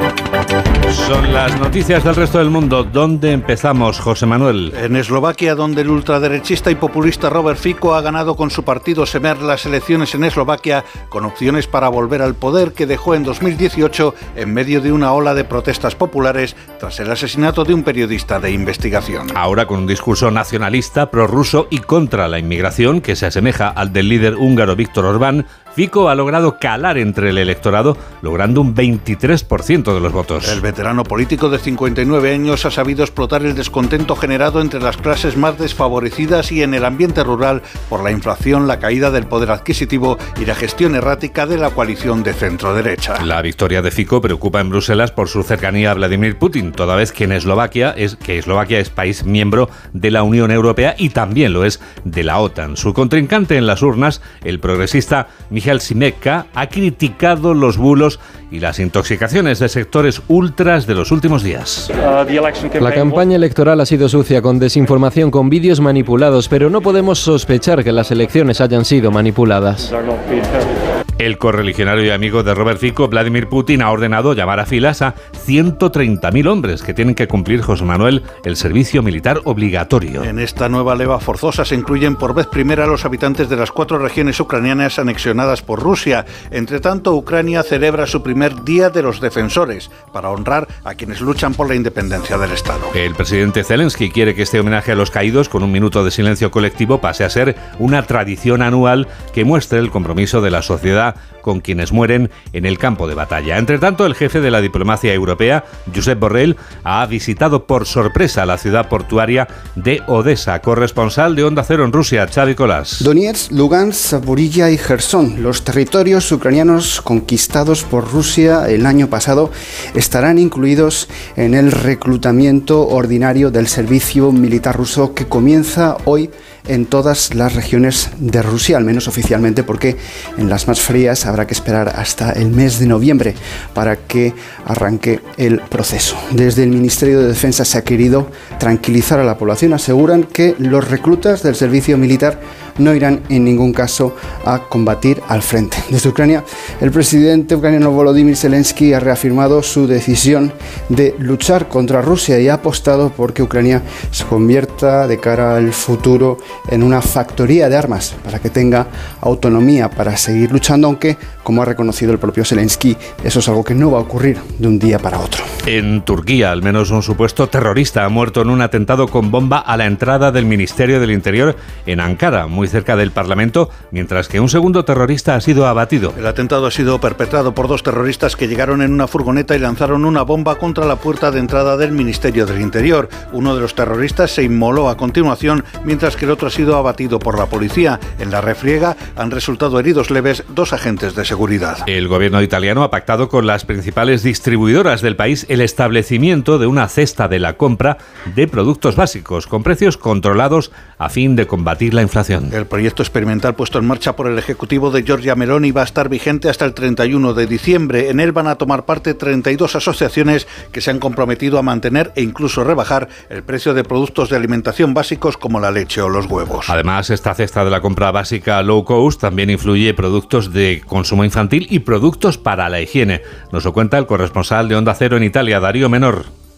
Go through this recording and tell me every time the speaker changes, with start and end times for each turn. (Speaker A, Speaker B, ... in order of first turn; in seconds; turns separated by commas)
Speaker A: 0.9-4.7, Speaker B: 4.7-19.4, Speaker A: 19.3-30.6, Speaker B: 30.4-43.2, Speaker A: 43.2-61.9, Speaker C: 62.6-69.9, Speaker A: 71.2-80.3, Speaker B: 80.2-92.9, Speaker A: 92.9-113.1, Speaker D: 113.0-165.5, Speaker A: 165.7-176.2, Speaker B: 176.2-191.8, Speaker A: 191.9-202.5, Speaker B: 202.5-216.7, Speaker A: 216.7-226.3